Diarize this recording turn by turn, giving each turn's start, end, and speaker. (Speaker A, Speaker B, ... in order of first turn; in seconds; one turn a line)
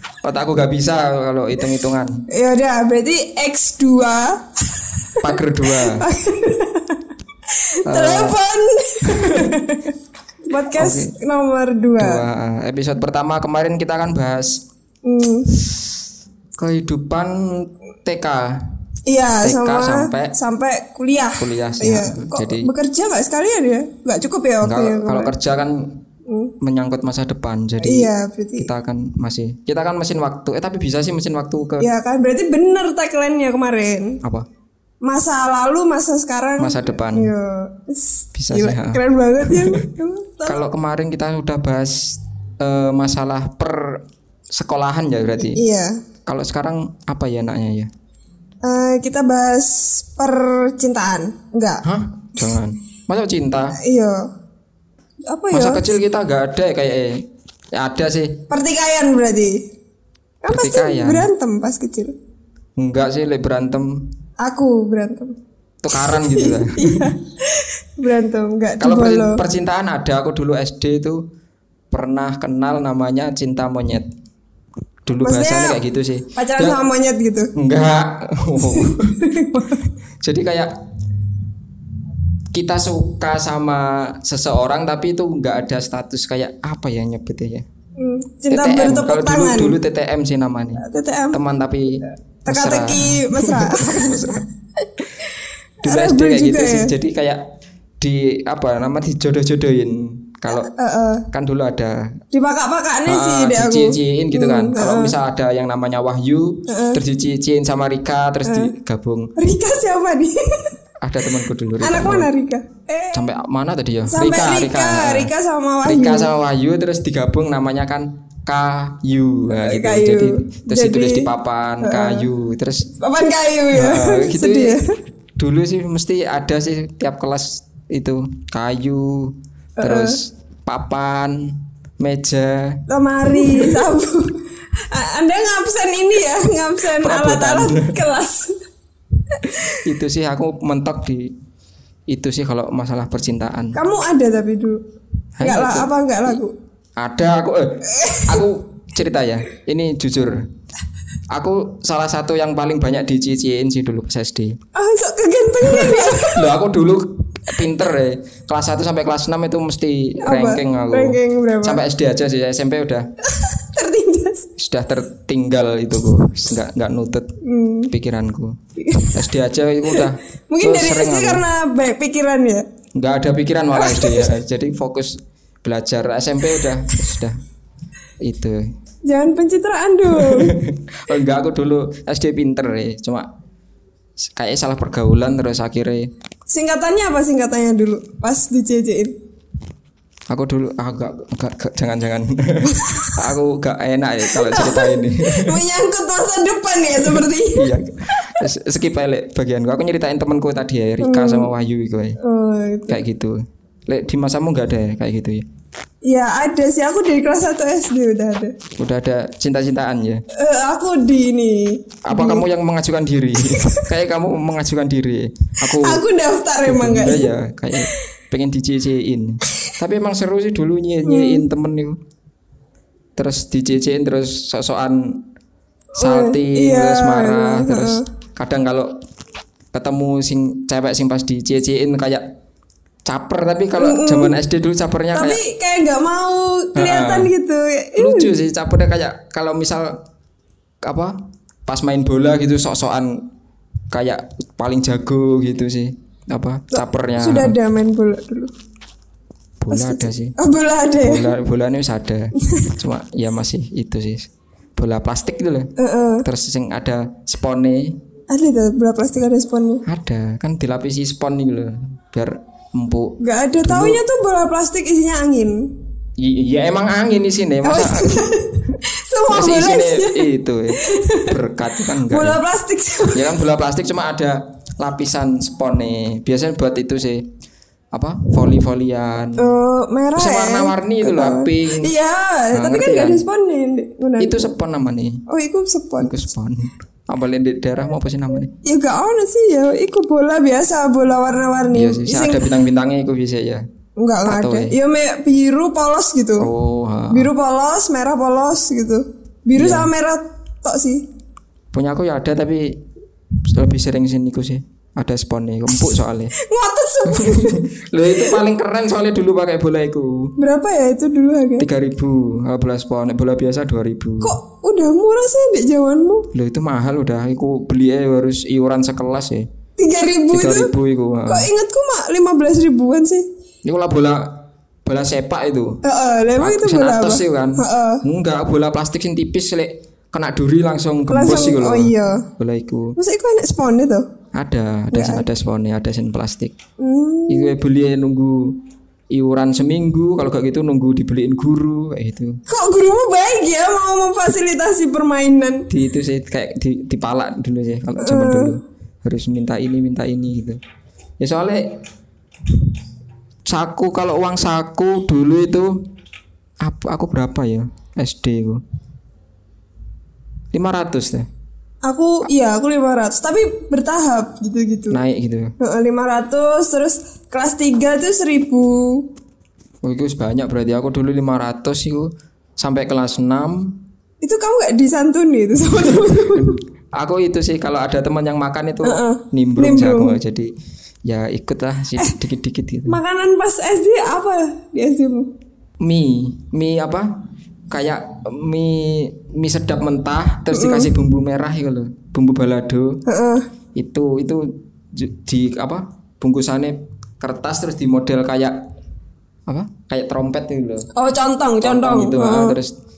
Speaker A: 0.2-2.2
Speaker B: 2.3-9.9
Speaker A: 5.2-6.1
Speaker A: 7.9-8.4
Speaker A: 9.1-9.5
Speaker B: 10.5-12.2
Speaker A: 10.8-11.1
Speaker A: 12.0-14.6
Speaker B: 15.1-15.6
Speaker A: 15.7-16.0
Speaker A: 16.6-18.6
Speaker B: 19.1-25.3
Speaker A: 19.4-20.3
Speaker A: 21.4-22.7
Speaker A: 24.6-26.0
Speaker B: 26.3-26.6
Speaker A: 26.6-31.9
Speaker B: 27.8-28.7
Speaker B: 31.8-34.2
Speaker B: 35.0-40.6
Speaker A: 36.6-37.3
Speaker A: 38.4-39.8
Speaker A: 40.5-45.6
Speaker B: 45.5-46.0
Speaker A: 46.3-47.9
Speaker B: 48.6-51.8
Speaker A: 51.8-53.8
Speaker B: 53.8-54.3
Speaker B: 55.3-55.8
Speaker A: 55.5-57.2
Speaker A: 57.8-58.4
Speaker B: 58.5-59.6
Speaker B: 60.4-62.1
Speaker A: 60.5-61.3
Speaker A: 62.8-64.1
Speaker B: 64.4-65.4
Speaker A: 65.8-67.1
Speaker B: 65.9-69.4
Speaker A: 68.8-71.2
Speaker A: 71.9-74.1
Speaker A: 75.1-76.8
Speaker B: 75.2-75.8
Speaker B: 76.4-77.5
Speaker A: 77.6-79.2
Speaker B: 78.6-79.8
Speaker A: 80.2-80.7
Speaker A: 82.5-87.7
Speaker B: 88.0-89.8
Speaker A: 88.5-94.5
Speaker B: 90.8-91.4
Speaker B: 92.5-94.4
Speaker B: 95.8-96.9
Speaker A: 95.8-97.4
Speaker A: 98.0-100.7
Speaker B: 100.5-101.2
Speaker A: 101.3-102.2
Speaker B: 102.3-105.2
Speaker A: 103.1-109.3
Speaker B: 106.7-107.0
Speaker B: 108.5-108.7
Speaker B: 109.4-110.8
Speaker A: 111.0-112.3
Speaker B: 111.8-113.3
Speaker A: 113.1-115.3
Speaker B: 114.1-116.3
Speaker A: 115.8-122.9
Speaker B: 119.6-121.3
Speaker B: 121.8-122.3
Speaker B: 123.0-124.8
Speaker A: 123.7-124.8
Speaker A: 125.4-133.9
Speaker B: 129.8-130.2
Speaker B: 132.9-134.4
Speaker B: 134.9-138.6
Speaker A: 137.0-137.9
Speaker B: 139.3-139.9
Speaker A: 139.5-141.3
Speaker A: 142.1-143.8
Speaker B: 143.8-144.8
Speaker A: 145.4-146.4
Speaker B: 145.4-146.5
Speaker A: 147.0-150.5
Speaker B: 147.9-148.5
Speaker A: 151.3-154.6
Speaker B: 154.8-156.5
Speaker A: 155.6-163.1
Speaker B: 160.2-161.8
Speaker B: 163.3-164.5
Speaker A: 164.6-167.3
Speaker B: 167.4-167.9
Speaker A: 167.9-168.6
Speaker B: 168.8-169.3
Speaker A: 169.1-171.4
Speaker B: 169.9-172.7
Speaker A: 173.0-177.4
Speaker B: 173.7-174.3
Speaker A: 178.2-178.7
Speaker B: 179.1-180.6
Speaker A: 180.1-183.3
Speaker A: 184.3-186.1
Speaker B: 186.5-189.2
Speaker A: 190.3-195.6
Speaker B: 192.7-193.2
Speaker B: 194.3-198.4
Speaker A: 197.0-202.2
Speaker B: 201.0-201.5
Speaker B: 202.2-203.0
Speaker A: 202.9-205.4
Speaker B: 206.1-208.6
Speaker A: 208.8-210.2
Speaker B: 210.3-212.4
Speaker A: 212.1-216.0
Speaker B: 213.5-213.9
Speaker B: 215.7-217.9
Speaker A: 216.6-222.0
Speaker B: 221.1-221.4
Speaker A: 223.2-225.2
Speaker B: 226.0-228.0
Speaker A: 226.0-228.9
Speaker A: 229.7-232.2
Speaker A: 233.1-235.4
Speaker B: 233.8-234.4
Speaker B: 235.1-238.3
Speaker A: 236.8-237.3
Speaker A: 238.0-240.0
Speaker A: 240.8-243.2
Speaker A: 243.9-247.6
Speaker B: 246.7-248.5
Speaker A: 249.6-250.3
Speaker B: 249.7-251.3
Speaker A: 251.0-255.7
Speaker B: 252.4-252.8
Speaker B: 255.8-256.3
Speaker A: 256.2-258.0
Speaker B: 258.3-259.9
Speaker A: 259.9-264.0
Speaker B: 263.2-265.7
Speaker A: 266.2-268.2
Speaker B: 267.6-271.4
Speaker A: 269.3-272.4
Speaker B: 271.9-273.4
Speaker A: 273.1-277.3
Speaker A: 277.9-279.5
Speaker B: 279.4-284.5
Speaker A: 280.1-281.9
Speaker A: 282.5-283.2
Speaker A: 284.2-285.2
Speaker B: 285.3-286.2
Speaker A: 286.0-288.5
Speaker B: 288.6-292.4
Speaker A: 291.7-293.6
Speaker B: 294.0-296.5
Speaker A: 294.3-294.7
Speaker A: 296.4-297.3
Speaker B: 297.1-301.1
Speaker A: 299.6-299.9
Speaker A: 301.7-302.8
Speaker A: 303.4-306.4
Speaker B: 306.4-307.6
Speaker A: 307.1-310.3
Speaker B: 308.2-308.4
Speaker B: 310.4-311.7
Speaker A: 311.6-314.4
Speaker B: 314.2-316.3
Speaker A: 316.3-319.5
Speaker B: 319.8-320.7
Speaker A: 320.3-321.5
Speaker B: 321.3-323.3
Speaker A: 323.6-325.8
Speaker B: 325.8-328.0
Speaker A: 326.4-333.0
Speaker B: 331.1-332.3
Speaker B: 333.0-334.1
Speaker A: 334.4-336.5
Speaker B: 334.9-335.2
Speaker B: 336.8-337.6
Speaker A: 337.3-338.6
Speaker A: 339.1-342.4
Speaker B: 342.5-345.7
Speaker A: 345.7-350.6
Speaker B: 348.0-348.6
Speaker A: 351.2-351.8
Speaker A: 353.5-355.7
Speaker A: 356.6-358.6
Speaker A: 360.5-361.3
Speaker B: 361.9-365.0
Speaker A: 364.9-365.5
Speaker B: 365.6-369.1
Speaker A: 369.8-373.8
Speaker B: 374.2-376.6
Speaker A: 375.8-380.5
Speaker B: 378.8-380.2
Speaker A: 381.1-383.0
Speaker B: 382.9-385.3
Speaker A: 385.8-387.1
Speaker A: 387.7-393.0
Speaker B: 390.5-390.9
Speaker B: 393.1-393.5
Speaker A: 393.8-398.6
Speaker A: 399.5-400.9
Speaker B: 401.0-402.6
Speaker A: 401.6-402.7